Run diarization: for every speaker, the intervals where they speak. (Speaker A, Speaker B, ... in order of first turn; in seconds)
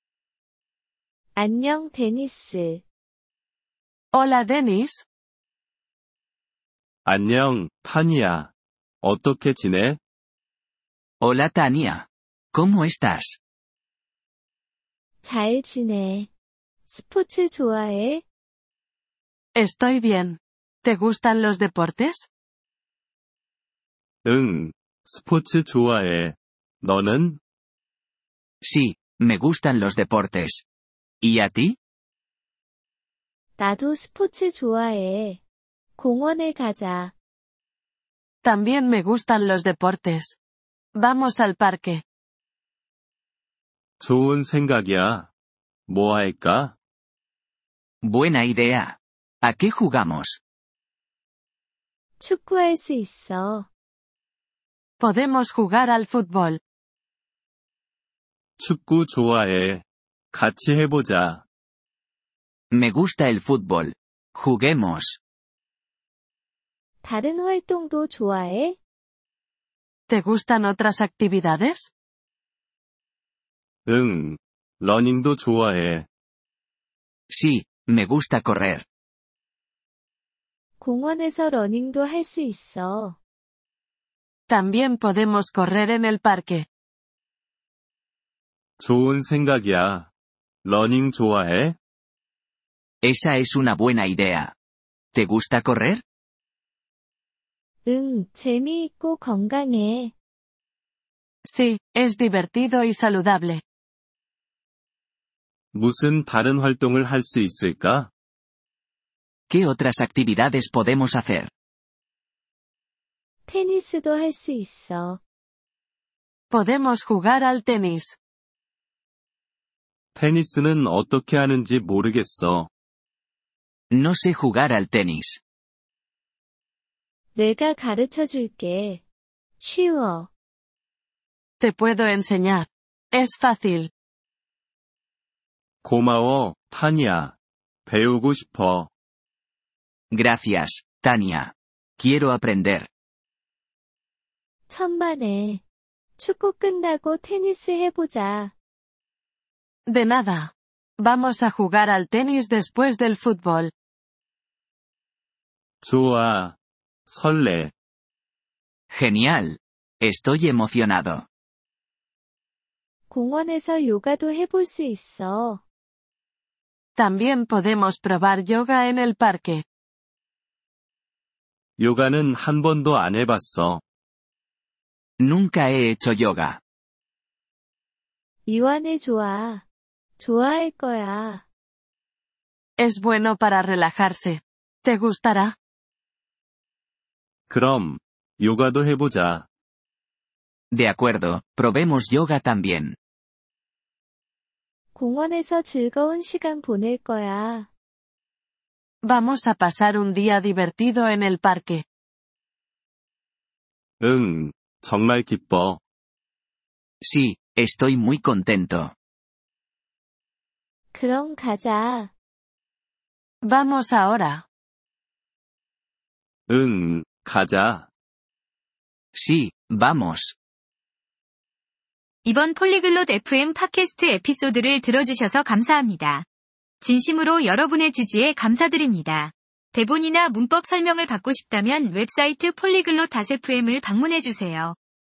Speaker A: 1.4-2.8, 15.2-16.3, 16.9-18.2, 33.6-35.4, 36.0-37.1, 52.2-53.7, 67.0-68.8, 80.8-83.2, 97.8-100.1, 113.5-115.2, 127.3-129.0, 129.6-130.3, 144.7-145.6, 146.2-148.5, 163.1-165.6, 178.5-179.7, 180.2-181.4, 194.9-197.7, 210.9-212.1
Speaker B: 4.1-5.1, 19.6-22.3, 38.4-40.4, 41.0-42.0, 55.0-56.6, 70.1-71.9, 84.5-86.7, 101.5-103.6, 116.5-118.2, 131.6-133.9, 149.9-153.7, 167.0-169.7, 182.8-185.6, 199.0-201.8, 213.4-214.5
Speaker C: 7.1-8.5, 9.0-10.0, 24.2-27.4, 44.0-45.3, 45.9-46.8, 58.6-61.4, 73.9-76.1, 88.8-90.1, 90.7-91.8, 105.7-108.1, 120.2-122.7, 135.8-137.3, 137.9-138.9, 155.8-156.6, 157.1-157.7, 171.8-173.8, 187.5-189.5, 204.0-205.8, 216.5-217.9
Speaker D: 11.2-13.4, 28.6-30.6, 31.2-31.8, 48.0-50.4, 62.7-65.2, 77.3-78.8, 93.0-94.5, 95.1-96.0, 109.5-111.5, 123.9-125.4, 140.1-142.9, 158.9-161.3, 175.2-176.6, 190.7-193.0, 207.0-208.9, 219.1-220.3
Speaker E: 222.2-226.3, 226.8-234.8